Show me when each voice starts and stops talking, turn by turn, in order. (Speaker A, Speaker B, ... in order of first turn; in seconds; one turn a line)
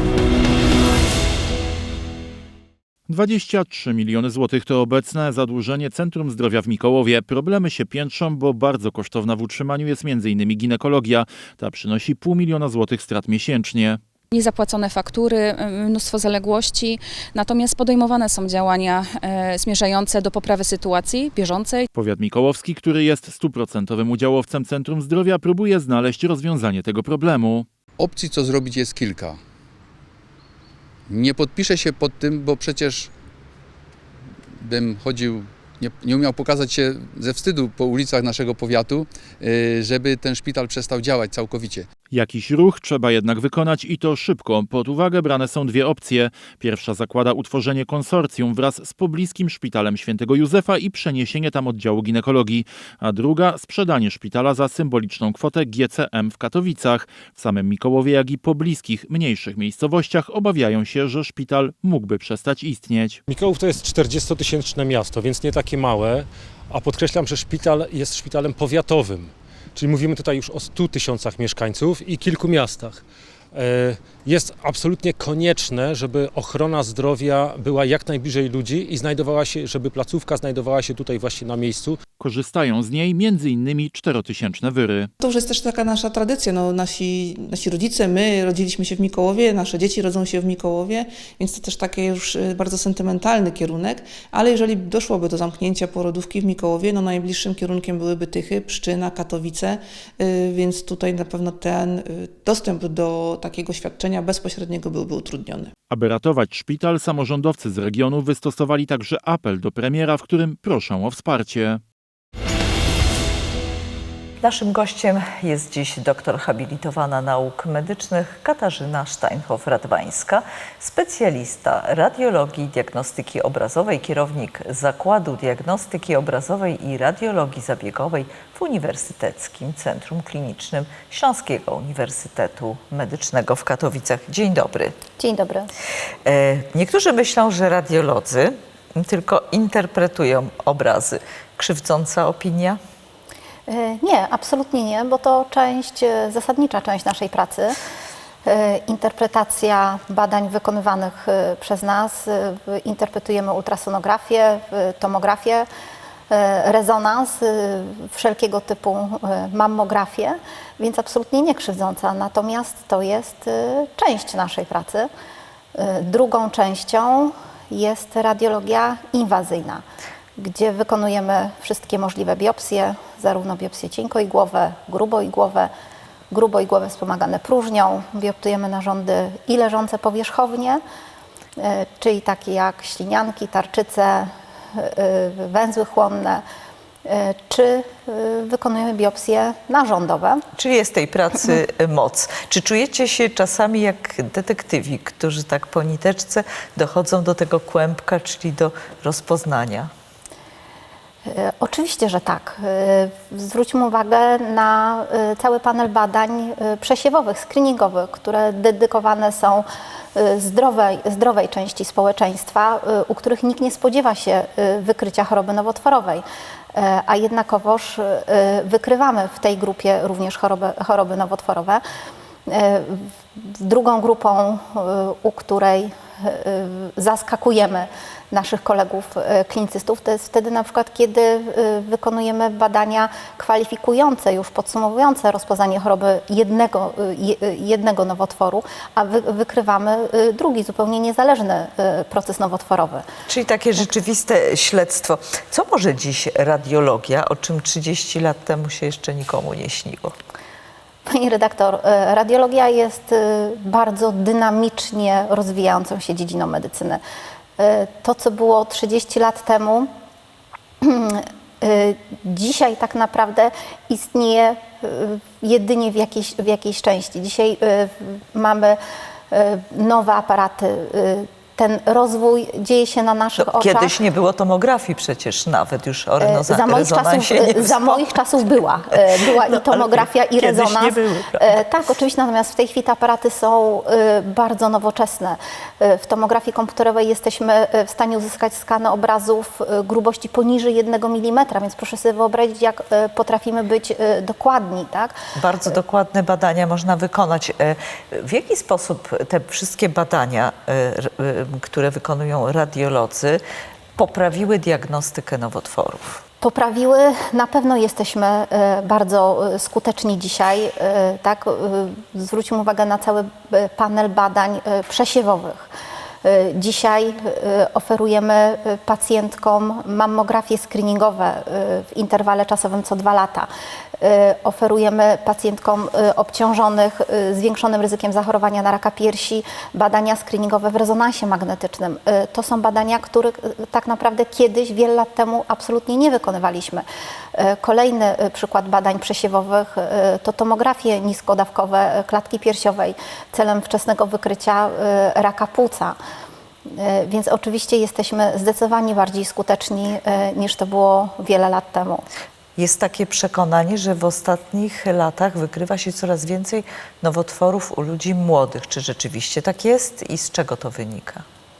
Speaker A: 3.1-14.0
Speaker B: 14.3-21.9
Speaker A: 21.9-27.7
Speaker C: 28.0-29.4
Speaker C: 31.1-33.1
Speaker C: 34.5-41.9
Speaker A: 42.1-63.2
Speaker D: 63.3-73.0
Speaker D: 73.5-82.0
Speaker A: 82.2-85.1
Speaker E: 85.2-105.7
Speaker A: 105.9-111.8
Speaker F: 114.4-135.0
Speaker G: 135.2-135.7
Speaker F: 136.2-142.8
Speaker G: 143.7-147.8
Speaker G: 148.4-155.7
Speaker G: 156.3-165.1
Speaker G: 165.7-169.8
Speaker G: 170.4-175.7
Speaker G: 176.3-180.8
Speaker G: 181.6-186.4
Speaker G: 187.0-190.4
Speaker F: 190.6-199.9
Speaker G: 201.2-216.2
Speaker G: 216.7-221.8
Speaker G: 222.5-243.1
Speaker F: 243.3-250.2
Speaker G: 251.1-257.0
Speaker G: 257.6-259.9
Speaker G: 260.8-268.8
Speaker G: 269.3-273.9
Speaker F: 273.4-278.1
Speaker G: 276.2-295.1
Speaker F: 279.0-281.6
Speaker F: 295.4-303.4
Speaker F: 303.9-306.2
Speaker G: 306.4-315.7
Speaker G: 316.2-323.5
Speaker G: 324.0-345.9
Speaker G: 346.7-352.0
Speaker F: 352.6-361.2